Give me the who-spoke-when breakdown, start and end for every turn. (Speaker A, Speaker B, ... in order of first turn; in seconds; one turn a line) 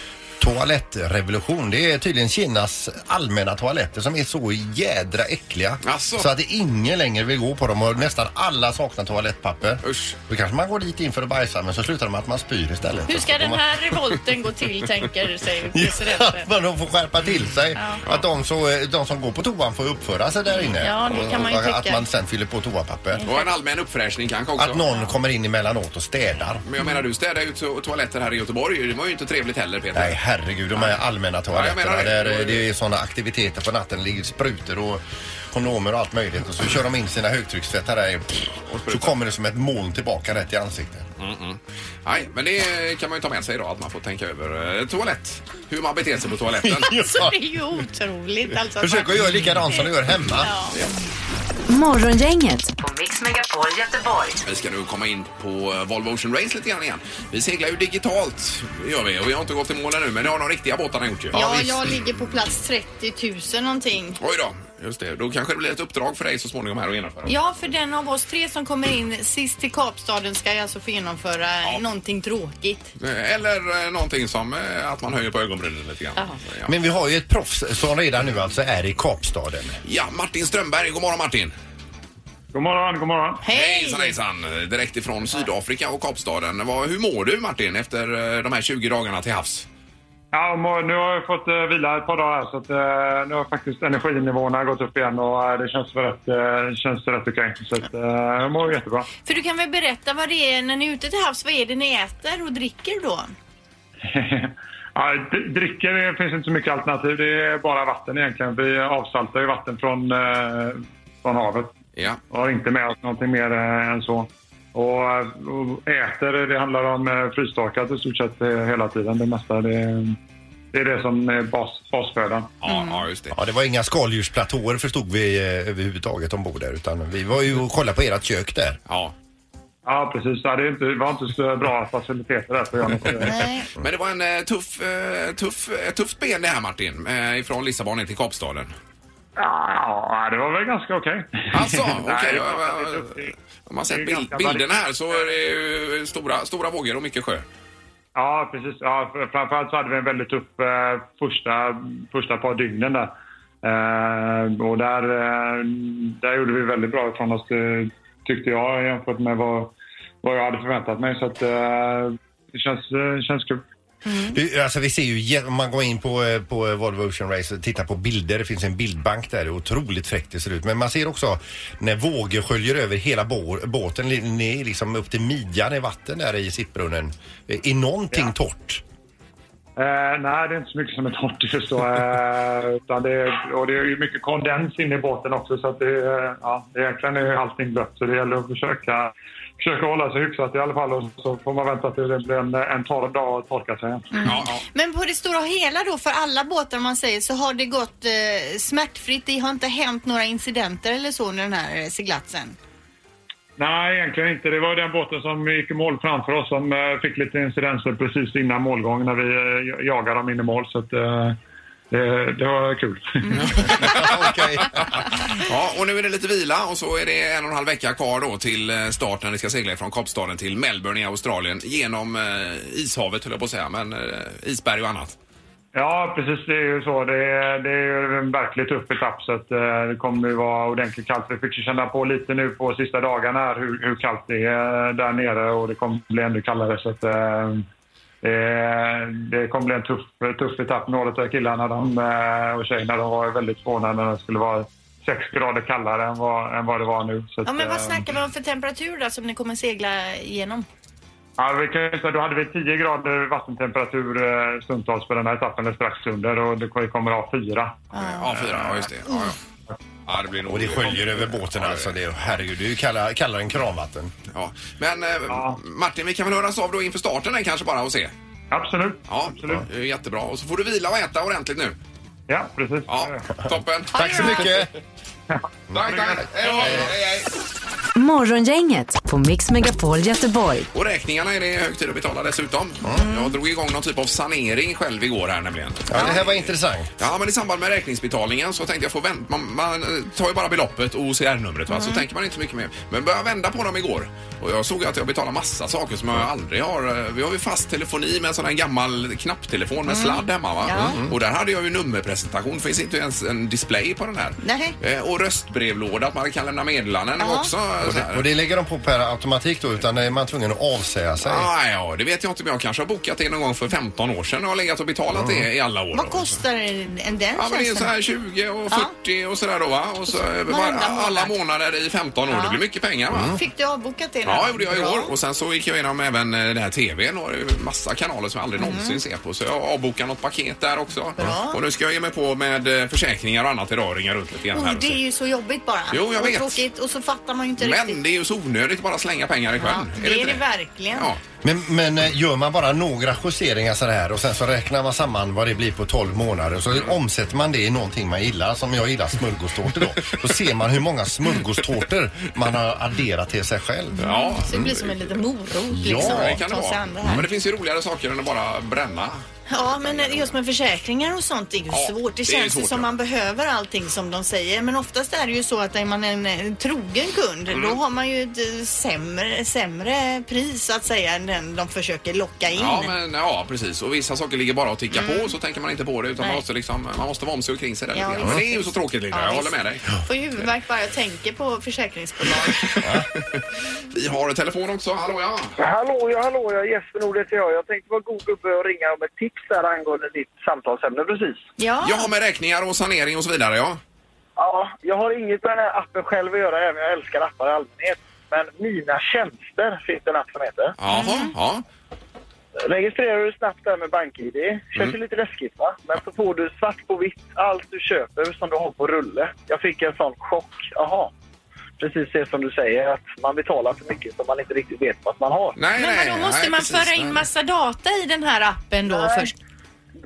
Speaker A: 0.4-14.0
Speaker B: 5.8-6.3
Speaker B: 9.8-10.2
Speaker C: 13.1-16.5
Speaker A: 15.7-23.3
Speaker C: 17.8-18.0
Speaker C: 20.8-22.1
Speaker C: 23.1-23.5
Speaker B: 23.3-24.8
Speaker A: 24.6-26.6
Speaker B: 26.6-30.2
Speaker A: 29.9-41.1
Speaker B: 31.5-32.6
Speaker B: 38.6-39.2
Speaker B: 41.2-46.9
Speaker A: 46.6-47.4
Speaker C: 46.9-50.8
Speaker A: 48.8-50.5
Speaker D: 51.7-54.4
Speaker B: 54.4-61.9
Speaker C: 61.3-64.2
Speaker B: 64.2-67.3
Speaker C: 67.3-72.9
Speaker B: 73.0-76.7
Speaker A: 76.7-79.8
Speaker B: 79.8-81.5
Speaker E: 82.5-83.4
Speaker C: 83.4-84.2
Speaker B: 83.5-89.7
Speaker E: 90.3-99.1
Speaker C: 99.2-103.3
Speaker E: 104.1-111.7
Speaker E: 112.3-120.2
Speaker E: 120.7-122.5
Speaker B: 122.6-123.4
Speaker C: 122.7-123.0
Speaker A: 123.3-128.8
Speaker B: 128.9-129.1
Speaker E: 129.9-133.4
Speaker C: 133.2-133.7
Speaker B: 133.8-138.7
Speaker E: 139.4-143.3
Speaker B: 141.5-147.4
Speaker E: 143.9-144.7
Speaker E: 148.1-163.6
Speaker C: 164.1-164.4
Speaker A: 164.3-178.8
Speaker E: 179.8-194.1
Speaker C: 194.1-202.6
Speaker B: 194.2-194.6
Speaker E: 203.6-211.4
Speaker E: 211.9-213.5
Speaker B: 213.4-214.8
Speaker A: 213.7-215.0
Speaker B: 215.4-225.2
Speaker E: 225.7-237.7
Speaker E: 238.2-248.1
Speaker C: 247.4-250.7
Speaker E: 251.4-257.8
Speaker C: 257.9-259.3
Speaker B: 258.0-259.4
Speaker B: 260.1-261.9
Speaker A: 260.5-264.1
Speaker B: 264.3-268.1
Speaker E: 265.3-265.6
Speaker E: 268.5-269.6
Speaker B: 269.1-271.8
Speaker E: 272.3-273.3
Speaker B: 272.9-274.6
Speaker C: 273.9-274.5
Speaker A: 273.9-274.7
Speaker E: 275.3-276.3
Speaker A: 275.7-276.9
Speaker B: 275.7-277.3
Speaker D: 277.9-280.7
Speaker B: 280.7-308.2
Speaker A: 285.9-286.9
Speaker C: 291.7-292.0
Speaker C: 299.9-301.0
Speaker C: 304.4-304.7
Speaker C: 307.2-307.5
Speaker A: 307.8-311.5
Speaker B: 311.2-316.4
Speaker A: 315.1-315.5
Speaker C: 315.9-317.9
Speaker B: 317.4-323.4
Speaker C: 320.1-321.3
Speaker C: 322.3-322.6
Speaker A: 323.1-323.4
Speaker C: 323.3-325.1
Speaker B: 324.2-335.0
Speaker C: 328.6-329.0
Speaker C: 331.2-331.6
Speaker C: 334.5-338.0
Speaker B: 335.9-336.6
Speaker B: 337.6-341.2
Speaker C: 339.6-341.1
Speaker A: 341.4-354.8
Speaker C: 354.0-357.3
Speaker B: 354.0-355.2
Speaker A: 355.7-356.4
Speaker B: 355.9-359.2
Speaker C: 359.5-372.9
Speaker B: 359.8-360.4
Speaker B: 361.7-362.9
Speaker B: 367.5-367.8
Speaker B: 372.5-379.9
Speaker C: 374.9-375.3
Speaker C: 377.9-382.8
Speaker B: 382.6-385.6
Speaker F: 385.6-391.4
Speaker C: 391.6-392.1
Speaker B: 391.8-393.8
Speaker F: 394.4-400.8
Speaker B: 400.8-401.6
Speaker C: 400.9-401.3
Speaker F: 402.6-411.1
Speaker F: 411.8-415.6
Speaker B: 415.6-417.2
Speaker C: 415.8-419.3
Speaker F: 418.9-419.3